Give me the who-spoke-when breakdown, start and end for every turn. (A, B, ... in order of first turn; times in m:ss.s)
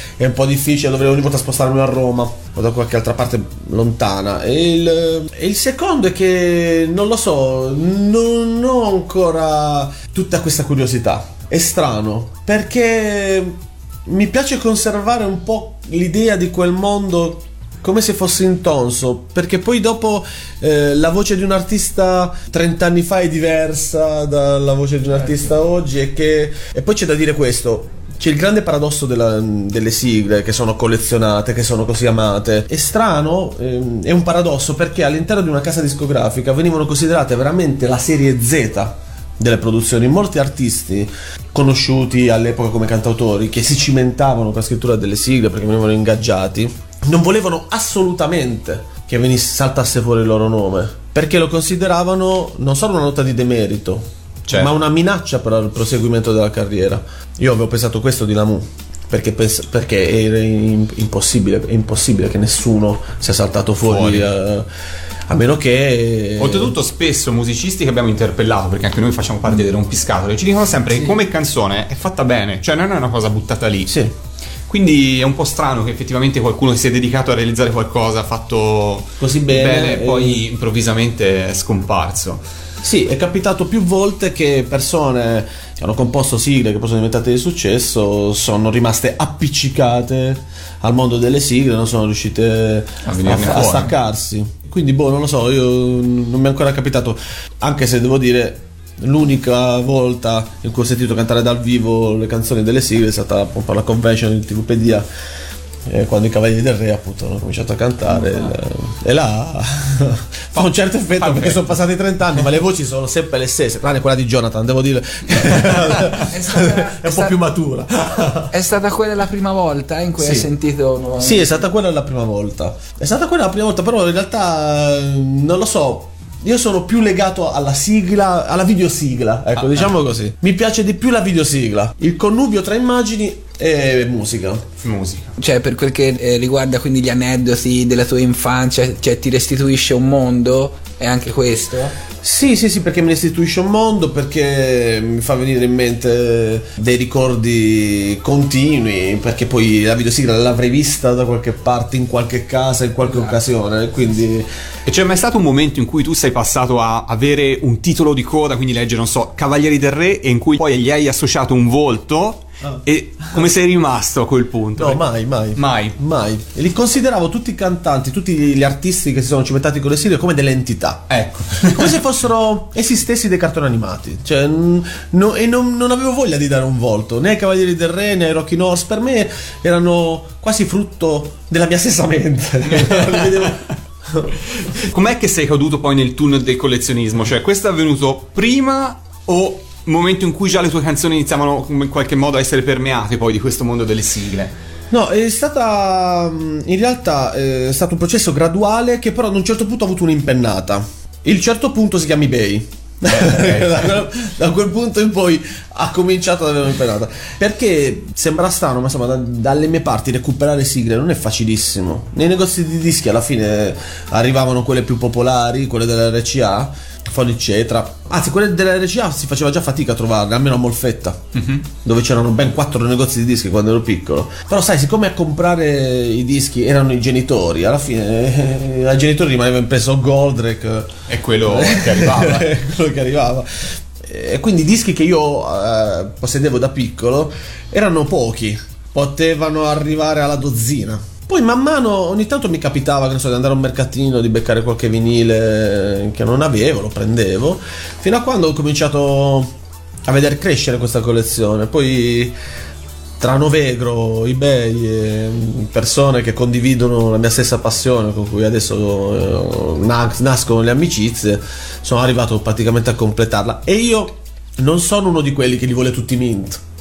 0:00.2-1:04.7 A
0:54.5-0:54.7 B
1:03.8-1:04.3 B
1:05.3-1:06.7 A
1:06.4-1:14.0 B
1:13.9-1:14.1 A
1:14.7-1:22.4 B
1:19.2-1:20.4 A
1:22.8-1:45.1 A
1:33.0-1:33.9 B
1:45.9-1:58.5 A
1:50.5-1:51.7 B
1:56.3-1:57.3 C
1:58.5-2:01.6 C
2:00.2-2:00.5 A
2:01.2-2:14.7 A
2:09.6-2:09.9 B
2:14.8-2:15.3 B
2:15.4-2:21.9 C
2:22.2-2:34.5 A
2:34.8-2:45.0 B
2:44.8-2:51.1 A
2:45.6-2:46.0 B
2:51.1-2:52.0 B
2:51.6-3:04.3 A
3:02.7-3:03.5 B
3:04.8-3:14.5 B
3:14.9-3:41.3 A
3:23.1-3:23.9 B
3:41.3-3:41.6 B
3:41.8-4:12.4 A
3:51.1-3:52.5 B
4:13.2-4:26.6 A